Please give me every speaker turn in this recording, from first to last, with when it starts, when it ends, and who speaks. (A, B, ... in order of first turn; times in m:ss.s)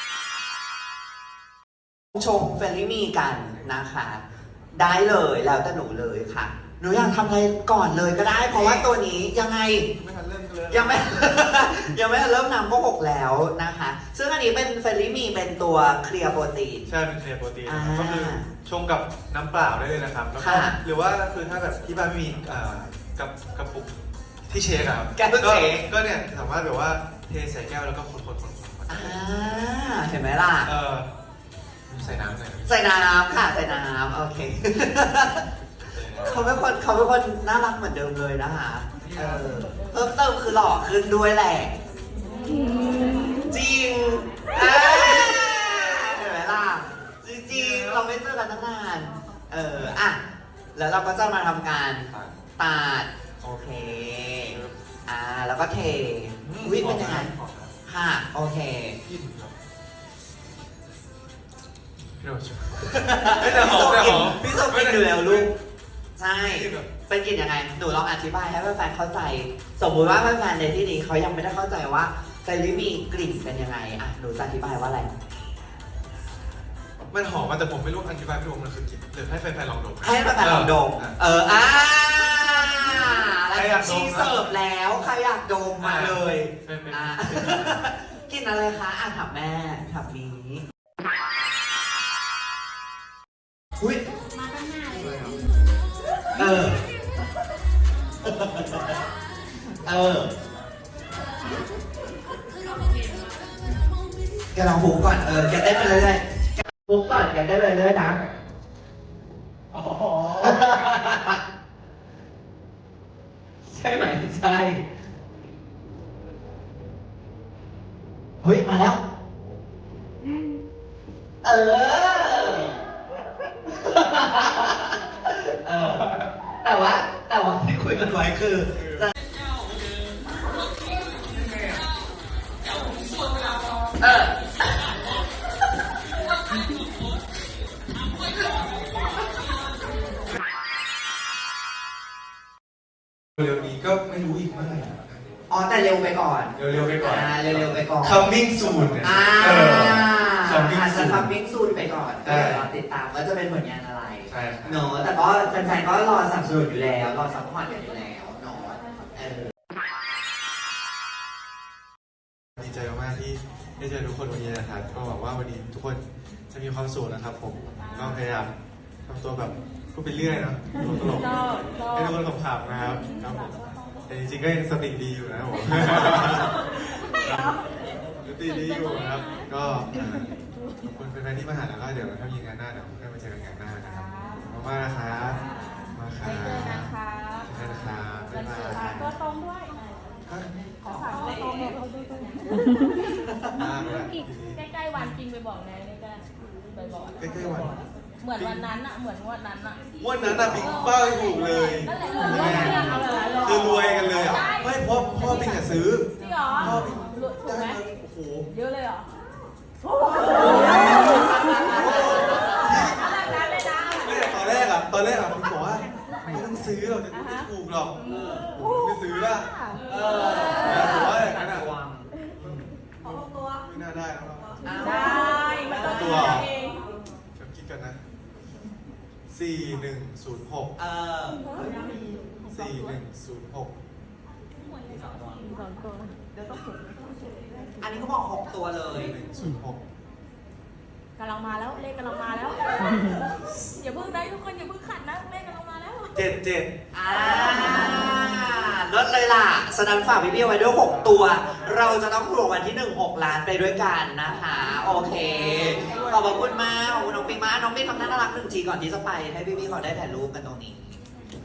0:02.1-0:09.9 A
0:08.5-0:08.9 B
0:09.9-0:11.2 B
0:10.7-0:16.8 A
0:16.9-0:24.0 B
0:17.6-0:18.5 A
0:20.4-0:20.8 A
0:24.5-0:29.3 B
0:25.2-0:25.9 A
0:28.9-0:30.7 A
0:30.6-0:31.1 B
0:31.9-0:32.7 B
0:32.6-0:35.5 A
0:35.9-0:36.6 B
0:36.2-0:41.8 A
0:39.0-0:39.5 B
0:43.4-0:50.2 A
0:47.5-0:48.1 B
0:50.7-0:57.3 A
0:52.1-0:52.4 B
0:54.5-0:54.8 B
0:56.4-0:57.7 B
0:57.8-0:59.0 A
0:59.0-0:59.5 B
1:02.2-1:05.5 B
1:02.8-1:05.5 A
1:06.2-1:15.1 A
1:06.3-1:06.9 B
1:17.1-1:21.1 B
1:20.0-1:30.6 A
1:23.5-1:24.4 B
1:25.8-1:27.9 B
1:33.8-1:34.0 A
1:34.9-1:35.2 B
1:36.3-1:36.8 A
1:38.2-1:39.0 A
1:39.8-1:40.3 A
1:44.5-1:48.2 A
1:49.7-1:51.4 A
1:53.7-1:54.8 A
1:58.4-1:59.0 A
2:01.4-2:02.7 A
2:03.8-2:04.8 A
2:05.4-2:09.1 A
2:08.7-2:09.0 B
2:14.0-2:14.3 A
2:23.4-2:25.2 B
2:25.5-2:28.3 A
2:26.5-2:31.3 B
2:29.0-2:39.5 A
2:32.2-2:32.7 B
2:34.3-2:34.8 B
2:42.6-2:48.5 B
2:49.0-2:53.6 B
2:54.1-2:57.6 B
2:58.2-3:05.4 B
3:05.9-3:09.2 B
3:10.9-3:12.3 C
3:13.5-3:14.6 B
3:15.0-3:16.2 C
3:17.2-3:18.7 B
3:18.8-3:19.8 C
3:20.0-3:28.5 B
3:22.0-3:23.4 C
3:28.7-3:29.0 C
3:30.2-3:32.6 A
3:31.5-3:33.2 B
3:33.5-3:33.9 C
3:33.9-3:38.0 B
3:38.0-3:38.5 A
3:38.5-3:39.5 B
3:39.8-3:42.1 A
3:40.5-3:41.7 B
3:42.4-3:44.7 B
3:44.6-3:46.5 A
3:45.9-3:46.5 B
3:47.4-3:48.0 B
3:49.3-3:50.7 B
3:50.8-3:52.0 A
3:52.4-3:53.7 B
3:54.9-3:55.4 A
3:57.8-3:59.1 A
3:58.9-3:59.8 B
4:01.2-4:03.2 C
4:03.8-4:06.0 C
4:06.1-4:06.7 B
4:06.9-4:21.0 A